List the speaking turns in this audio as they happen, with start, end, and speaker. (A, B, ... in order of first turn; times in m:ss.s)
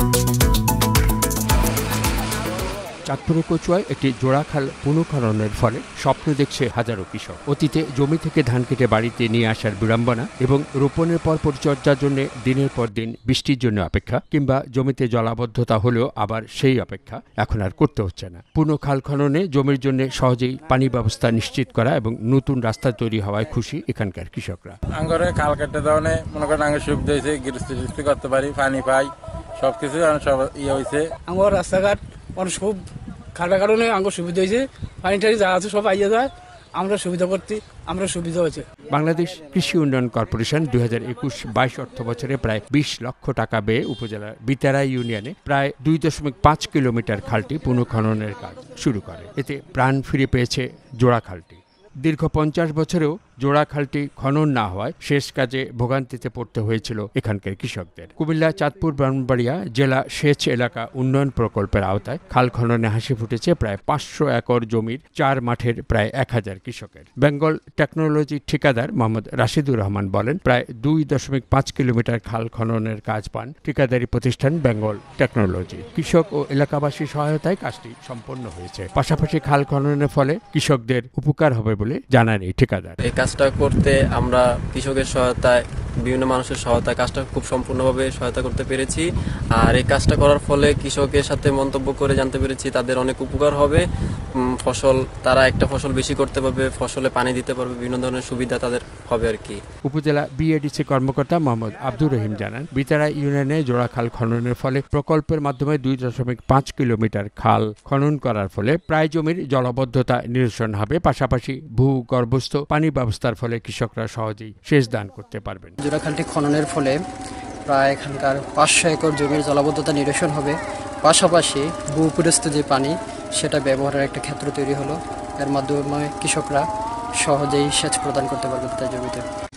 0:03.1-0:24.8 A
0:24.9-0:31.1 B
0:31.3-0:32.8 C
0:33.4-0:38.7 C
0:38.9-1:23.0 A
1:23.0-1:33.8 D
1:34.6-1:39.6 D
1:39.8-1:55.8 A
1:55.8-1:57.0 E
1:57.7-2:06.7 E
2:07.2-2:09.2 E